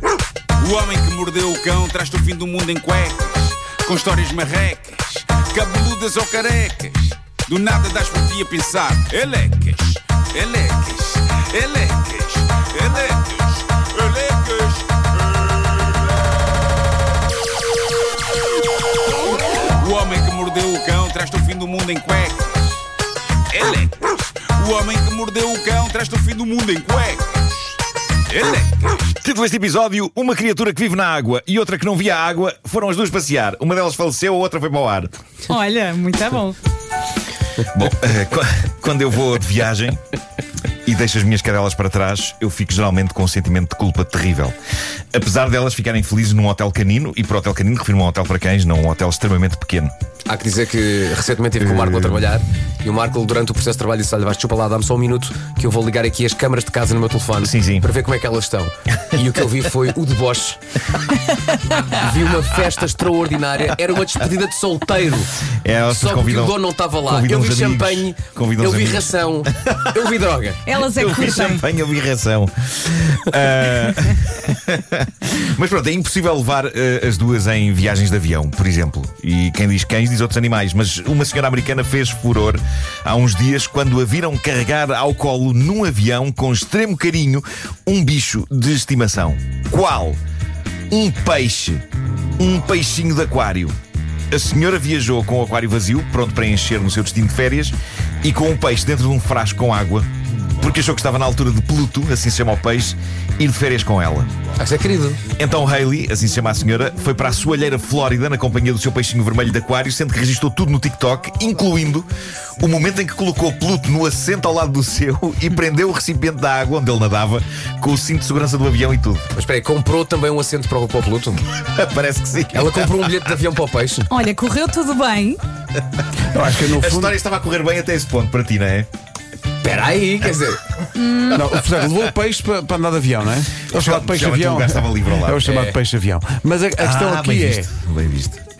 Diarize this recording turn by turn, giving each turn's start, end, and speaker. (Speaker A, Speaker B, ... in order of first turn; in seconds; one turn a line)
Speaker A: 0.6-16.0
Speaker A: 19.6-22.9
Speaker A: 23.5-27.8
Speaker A: 28.3-29.2
Speaker B: 29.2-35.1
Speaker C: 35.5-36.6
Speaker B: 37.7-40.0
Speaker B: 40.8-44.5
Speaker B: 45.1-49.9
Speaker D: 50.3-60.6
Speaker B: 51.6-52.2
Speaker B: 57.4-57.9
Speaker D: 61.7-70.7
Speaker B: 65.6-70.1
Speaker C: 70.7-71.7
Speaker B: 70.8-90.2
Speaker B: 90.9-91.8
Speaker B: 92.4-93.7
Speaker B: 94.3-100.1
Speaker B: 100.6-104.3
Speaker D: 104.6-105.2
Speaker B: 105.4-119.3
Speaker D: 119.3-121.4
Speaker B: 121.6-123.1
Speaker D: 122.5-124.1
Speaker C: 124.1-125.4
Speaker E: 126.3-127.2
Speaker B: 126.4-128.9
Speaker D: 129.6-130.6
Speaker C: 131.0-131.4
Speaker E: 131.3-137.7
Speaker B: 133.7-135.5
Speaker D: 135.4-135.8
Speaker B: 136.8-138.4